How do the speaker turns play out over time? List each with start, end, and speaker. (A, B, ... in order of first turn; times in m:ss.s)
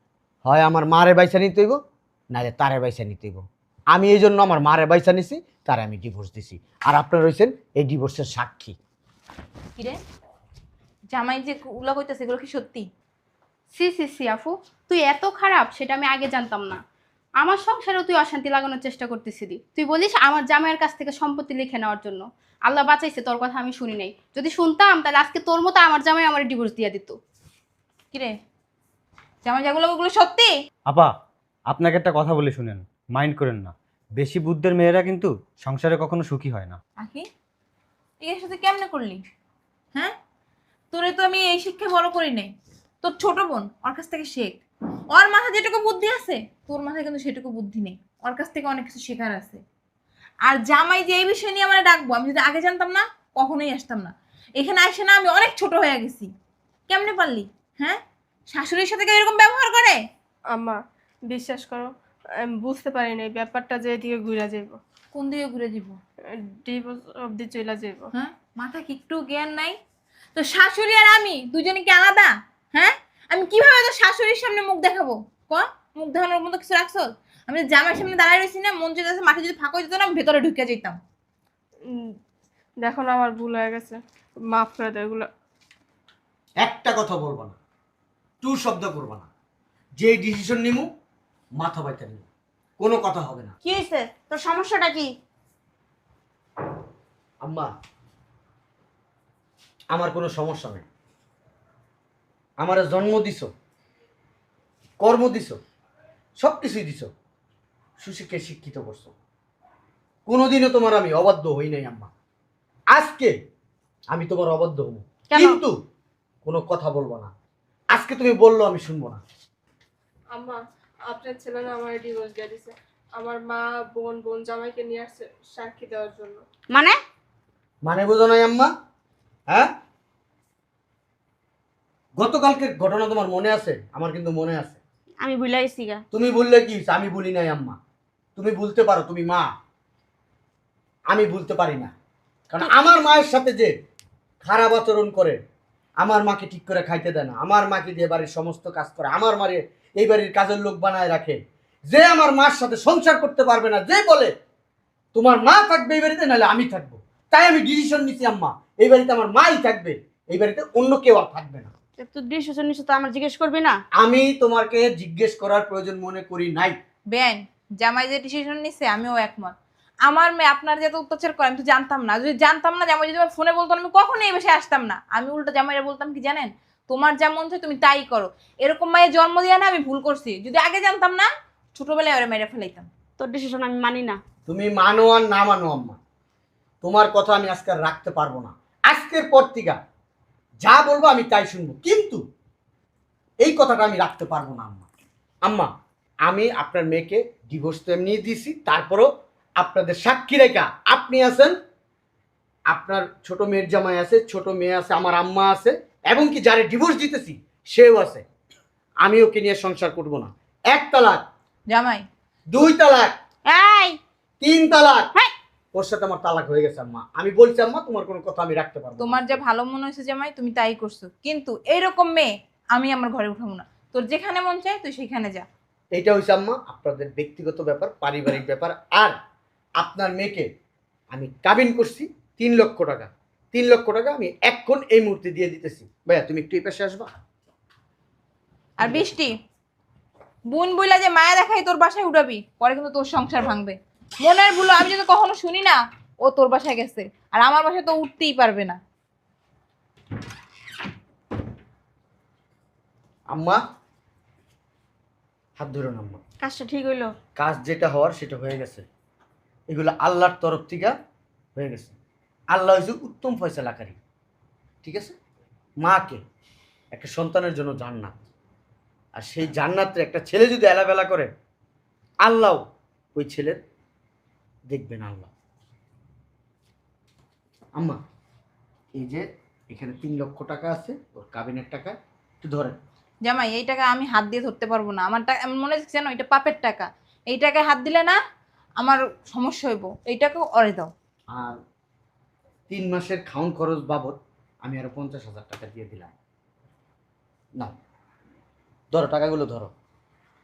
0:00.4-0:01.8 A
0:02.3-0:08.8 A
0:09.8-0:10.0 B
0:11.1-0:12.8 B
0:13.8-0:16.8 C
0:17.4-0:27.2 C
0:29.4-0:30.5 B
0:31.7-0:36.8 D
0:37.0-0:37.2 B
0:38.2-0:39.2 B
0:40.9-0:42.5 B
0:43.0-0:44.6 B
0:45.1-0:49.6 B
0:50.4-0:56.3 B
0:56.9-0:58.0 B
0:58.5-1:00.0 B
1:00.5-1:04.8 E
1:05.1-1:06.0 B
1:06.3-1:08.1 E
1:08.2-1:09.8 B
1:10.3-1:21.0 B
1:21.8-1:22.1 E
1:22.8-1:24.0 E
1:24.5-1:25.2 E
1:26.6-1:27.6 A
1:28.4-1:29.3 A
1:30.0-1:30.9 A
1:31.6-1:32.2 A
1:32.8-1:33.6 A
1:33.6-1:35.1 F
1:37.4-1:37.7 A
1:39.9-1:40.8 A
1:42.6-1:43.5 A
1:45.0-1:45.6 A
1:46.4-1:47.1 A
1:48.0-1:49.1 A
1:50.3-1:52.1 A
1:52.9-1:53.3 A
1:54.1-1:55.7 A
1:55.3-1:55.6 F
1:56.4-1:57.3 A
1:57.9-1:59.2 A
2:00.3-2:06.4 E
2:06.7-2:07.0 F
2:07.8-2:08.7 A
2:12.2-2:14.8 A
2:15.2-2:16.0 F
2:16.1-2:17.8 A
2:18.4-2:19.5 A
2:21.1-2:21.9 A
2:22.5-2:23.7 A
2:24.4-2:25.4 A
2:26.0-2:34.3 A
2:35.1-2:41.7 A
2:42.0-2:43.8 F
2:44.0-2:46.8 A
2:47.1-2:49.5 B
2:50.0-3:02.9 B
3:03.2-3:04.2 F
3:04.5-3:06.0 A
3:06.8-3:09.8 A
3:10.6-3:12.2 A
3:13.4-3:14.8 A
3:15.4-3:15.7 A
3:16.3-3:21.6 A
3:22.7-3:28.2 A
3:29.0-3:31.2 A
3:31.7-3:32.0 B
3:32.5-3:33.1 A
3:33.5-3:34.0 F
3:34.4-3:35.1 A
3:35.7-3:39.4 A
3:39.0-3:45.4 B
3:45.9-3:49.1 A
3:49.8-3:50.5 A
3:51.1-3:57.1 A
3:58.8-3:59.3 B
4:00.5-4:08.8 B
4:13.3-4:13.6 A
4:15.6-4:16.2 A
4:16.4-4:17.1 F
4:17.4-4:18.8 A
4:19.7-4:20.9 A
4:21.6-4:22.0 A
4:22.5-4:24.0 A
4:24.8-4:25.1 A
4:25.8-4:26.2 A
4:26.9-4:28.1 A
4:29.2-4:31.3 A
4:32.2-4:32.6 A
4:33.1-4:33.6 A
4:34.7-4:35.3 A
4:39.0-4:42.8 A
4:43.2-4:48.2 B
4:48.8-4:50.9 B
4:52.7-4:56.1 A
4:58.9-4:59.7 A